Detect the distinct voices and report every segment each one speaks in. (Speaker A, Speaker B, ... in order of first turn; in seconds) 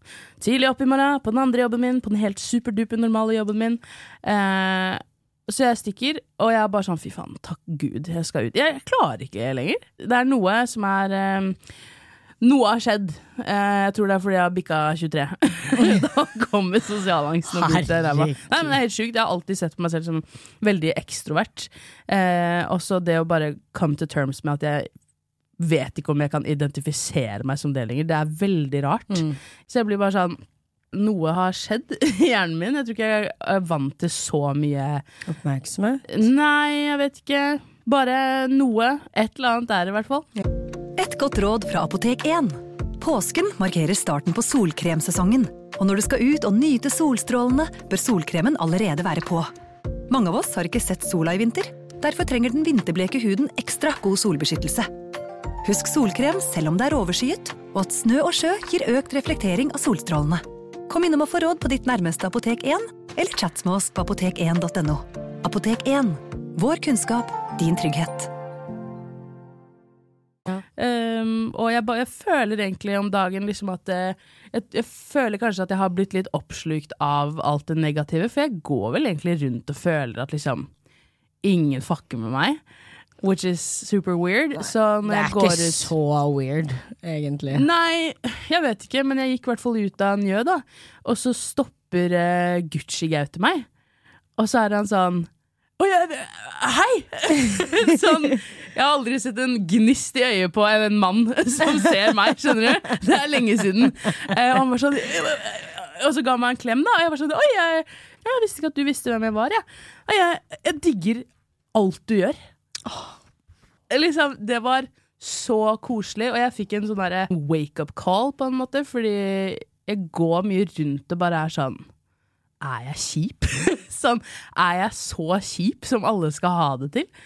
Speaker A: 0.4-11.6, 12.4-24.9, 25.6-35.0, 36.1-40.3, 70.8-80.7, 81.4-82.6, 83.2-85.9, 87.5-93.7, 94.4-112.4, 113.9-121.9, 122.6-127.1
Speaker B: 17.5-18.8, 29.1-29.4, 35.3-36.1, 84.6-87.7, 112.8-113.1
Speaker C: 41.0-49.5, 50.1-54.9, 55.6-68.3